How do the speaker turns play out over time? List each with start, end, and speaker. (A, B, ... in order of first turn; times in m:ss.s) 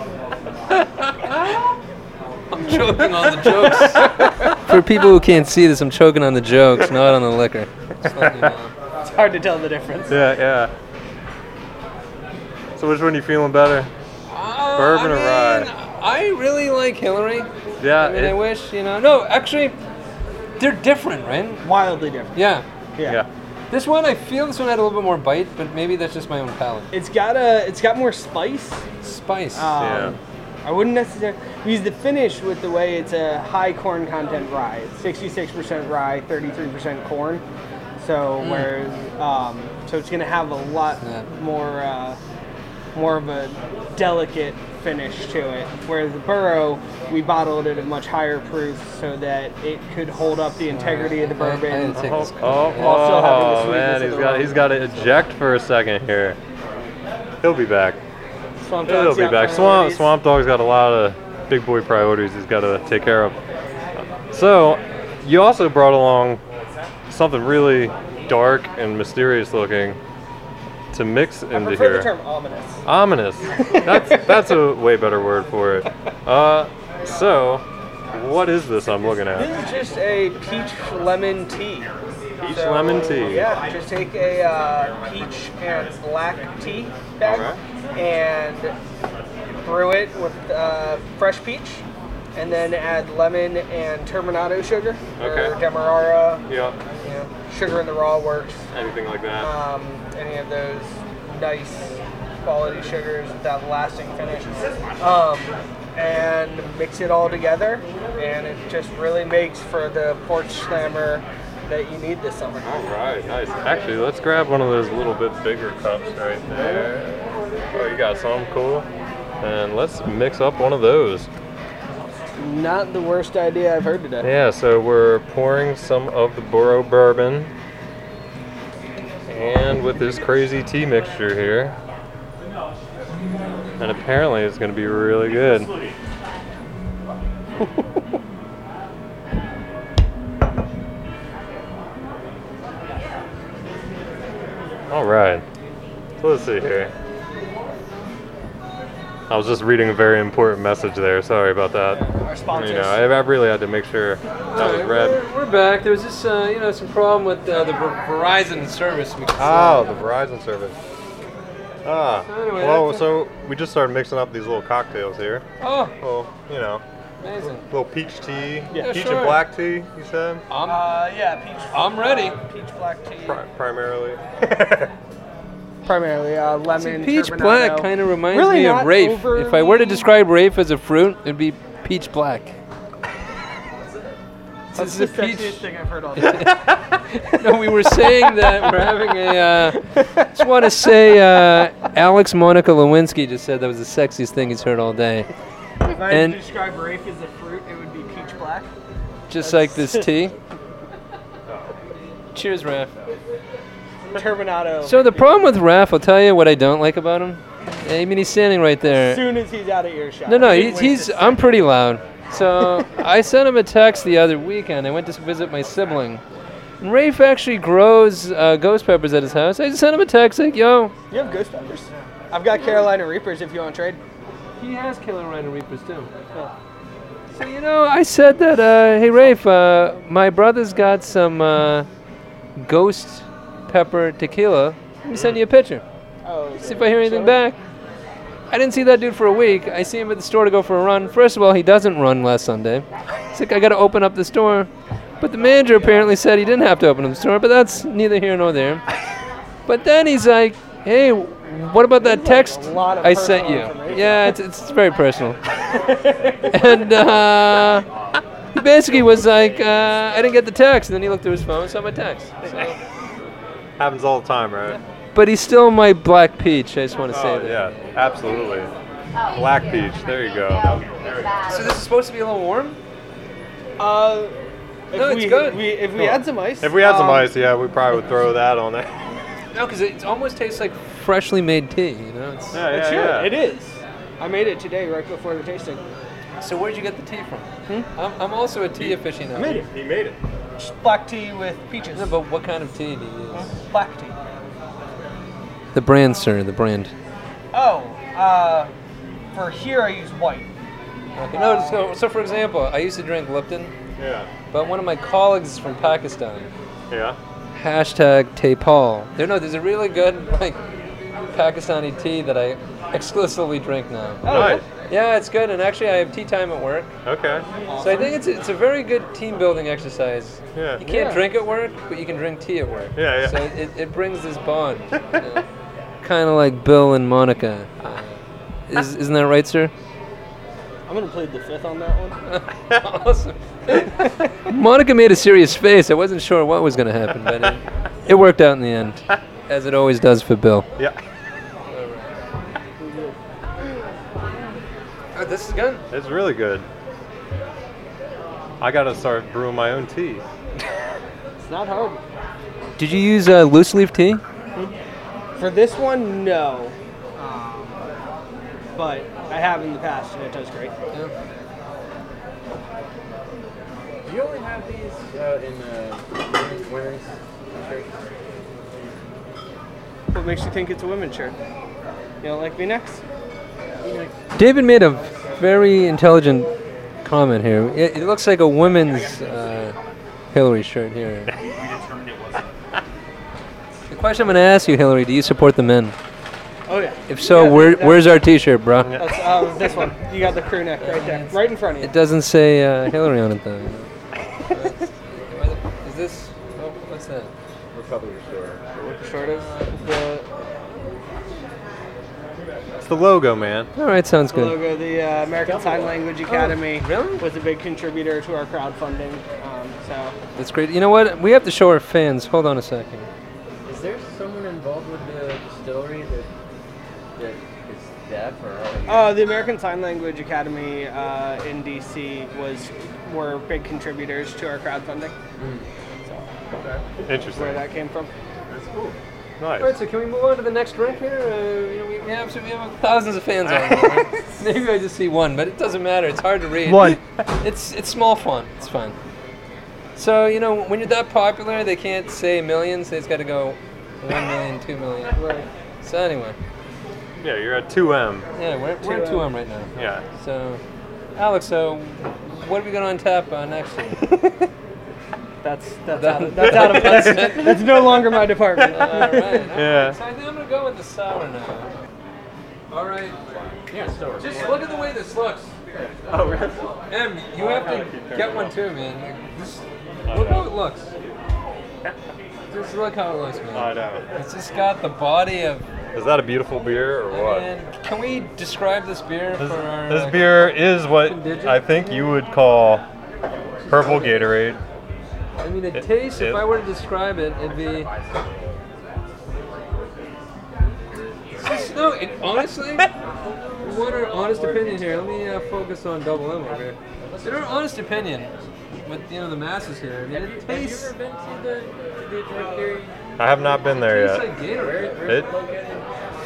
0:02.5-0:08.7 A
0:03.9-0:04.6 B
0:08.1-0:08.5 C
0:09.0-0:10.2 B
0:10.1-0:10.7 C
0:12.8-0:13.9 C
0:14.3-0:19.8 A
0:14.7-0:15.7 C
0:17.8-0:18.4 C
0:20.6-0:21.6 A
0:21.6-0:22.4 B
0:22.3-0:22.6 A
0:23.7-0:26.9 A
0:26.9-0:28.8 B
0:29.0-0:30.0 A
0:29.5-0:37.4 B
0:29.8-0:30.2 C
0:38.0-0:42.2 B
0:38.4-0:38.7 A
0:41.0-0:41.3 A
0:42.9-0:54.7 B
0:50.7-0:53.4 A
0:51.9-0:56.4 C
0:57.4-0:58.0 C
0:58.6-1:00.1 B
0:58.8-1:03.4 C
1:04.0-1:06.4 C
1:07.1-1:10.0 C
1:10.9-1:12.1 C
1:11.5-1:12.8 B
1:12.8-1:19.5 C
1:13.6-1:14.3 B
1:19.3-1:21.9 B
1:22.4-1:23.6 C
1:22.4-1:28.7 B
1:27.2-1:27.6 C
1:29.6-1:31.8 B
1:32.3-1:36.4 B
1:35.2-1:35.6 C
1:36.5-1:36.8 C
1:37.0-1:38.7 B
1:38.7-1:39.5 C
1:39.4-1:52.7 B
1:52.6-1:58.9 C
1:56.5-1:56.9 B
1:59.4-2:01.3 C
2:02.4-2:04.3 B
2:04.2-2:07.5 C
2:09.3-2:11.8 C
2:13.8-2:15.7 C
2:24.9-2:25.4 C
2:26.2-2:26.9 C
2:29.3-2:35.2 C
2:31.9-2:33.0 B
2:34.5-2:40.1 A
2:39.4-2:40.8 C
2:41.8-2:45.4 C
2:42.3-2:43.1 A
2:45.6-2:45.9 A
2:46.0-2:46.8 C
2:47.2-2:47.6 A
2:47.6-2:50.4 C
2:48.7-2:49.0 B
2:48.7-2:49.4 A
2:50.5-2:50.9 A
2:50.6-2:53.4 B
2:51.7-2:52.4 A
2:53.2-2:54.9 C
2:55.8-3:00.1 B
2:56.7-3:02.6 A
3:04.7-3:05.6 A
3:04.7-3:06.5 B
3:06.2-3:15.3 A
3:09.9-3:10.6 B
3:15.9-3:18.7 B
3:16.0-3:16.4 A
3:19.3-3:20.3 A
3:19.4-3:20.1 B
3:22.3-3:23.1 A
3:24.1-3:25.5 B
3:24.8-3:29.3 A
3:28.8-3:31.4 B
3:30.3-3:36.2 A
3:36.8-3:40.9 A
3:41.1-3:44.0 B
3:44.6-3:46.1 A
3:47.3-3:51.9 A
3:52.6-3:55.8 A
3:55.1-3:55.4 C
3:56.2-3:57.4 B
3:56.6-3:57.6 A
3:58.5-4:04.7 A
4:05.2-4:08.8 A
4:09.7-4:15.4 A
4:12.0-4:14.3 B
4:15.7-4:16.8 B
4:16.5-4:17.9 A
4:18.5-4:22.7 A
4:23.8-4:24.8 C
4:25.1-4:27.9 A
4:27.1-4:28.7 C
4:29.3-4:31.2 C
4:31.5-4:32.8 A
4:33.8-4:34.3 B
4:34.9-4:37.3 B
4:34.9-4:35.8 A
4:36.0-4:39.0 C
4:39.5-4:42.6 A
4:42.5-4:43.3 C
4:42.6-4:45.8 B
4:46.4-4:49.6 A
4:48.8-4:50.2 C
4:49.3-4:49.6 B
4:50.6-4:52.1 B
4:51.9-4:53.5 A
4:53.3-4:54.2 B
4:55.7-4:56.9 A
4:57.5-4:58.7 B
4:59.3-5:00.5 B
5:01.2-5:03.7 A
5:01.3-5:01.9 B
5:04.0-5:04.3 C
5:04.5-5:06.5 A
5:06.9-5:07.2 C
5:07.5-5:10.6 A
5:11.3-5:16.9 A
5:14.2-5:14.6 B
5:14.2-5:14.6 C
5:17.0-5:17.4 C
5:17.6-5:18.2 B
5:17.8-5:25.4 A
5:20.5-5:20.8 C
5:20.8-5:21.2 B
5:23.0-5:23.4 C
5:26.0-5:29.7 A
5:30.9-5:32.2 B
5:32.2-5:40.7 A
5:41.7-5:42.1 A
5:42.8-5:43.2 B
5:45.1-5:45.8 A
5:45.9-5:46.6 C
5:48.6-5:50.2 C
5:51.4-5:52.0 B
5:52.8-5:54.2 A
5:55.4-5:57.8 B
5:58.8-6:00.7 B
6:04.0-6:08.0 D
6:10.1-6:11.4 B
6:12.2-6:13.0 B
6:13.8-6:14.2 D
6:14.4-6:16.5 A
6:17.0-6:19.7 A
6:20.3-6:21.3 A
6:23.9-6:26.0 A
6:26.7-6:28.2 B
6:27.1-6:29.0 A
6:28.8-6:29.1 C
6:29.0-6:31.9 B
6:30.8-6:33.9 A
6:34.5-6:37.3 A
6:37.7-6:38.6 D
6:38.8-6:40.2 B
6:39.3-6:39.8 A
6:42.8-6:43.7 C
6:43.7-6:44.6 A
6:44.3-6:50.1 B
6:45.4-6:46.0 D
6:46.3-6:47.2 A
6:50.4-6:53.1 A
6:53.6-6:56.3 D
6:57.2-6:59.2 D
6:58.9-7:05.1 B
7:05.4-7:05.6 D
7:07.0-7:07.6 C
7:07.3-7:08.1 B
7:08.5-7:09.0 D
7:09.4-7:09.7 C
7:09.6-7:19.0 A
7:13.6-7:14.0 C
7:16.6-7:17.0 C
7:20.0-7:25.2 A
7:25.1-7:25.5 B
7:25.8-7:26.4 A
7:27.2-7:28.2 C
7:28.4-7:30.6 A
7:28.8-7:29.3 B
7:29.7-7:30.0 C
7:31.2-7:34.0 A
7:35.4-7:39.4 B
7:35.9-7:37.6 A
7:36.4-7:38.0 C
7:38.6-7:40.0 C
7:38.7-7:41.7 A
7:42.7-7:43.2 A
7:43.7-7:44.7 D
7:44.2-7:45.5 A
7:45.7-7:46.8 D
7:46.9-7:50.9 A
7:47.3-7:48.6 C
7:50.0-7:50.5 C
7:52.5-7:55.7 A
7:53.5-7:54.0 C
7:55.9-7:57.5 C
7:57.1-8:02.1 A
7:59.4-8:02.8 C
8:03.6-8:04.3 A
8:03.7-8:04.6 C
8:05.4-8:07.9 A
8:05.7-8:06.4 C
8:10.9-8:11.5 D
8:11.3-8:12.9 A
8:13.0-8:14.9 D
8:13.6-8:18.3 A
8:17.0-8:17.6 D
8:18.8-8:20.9 A
8:20.1-8:22.9 D
8:23.2-8:24.3 C
8:23.7-8:25.0 A
8:24.5-8:25.9 D
8:25.0-8:25.3 C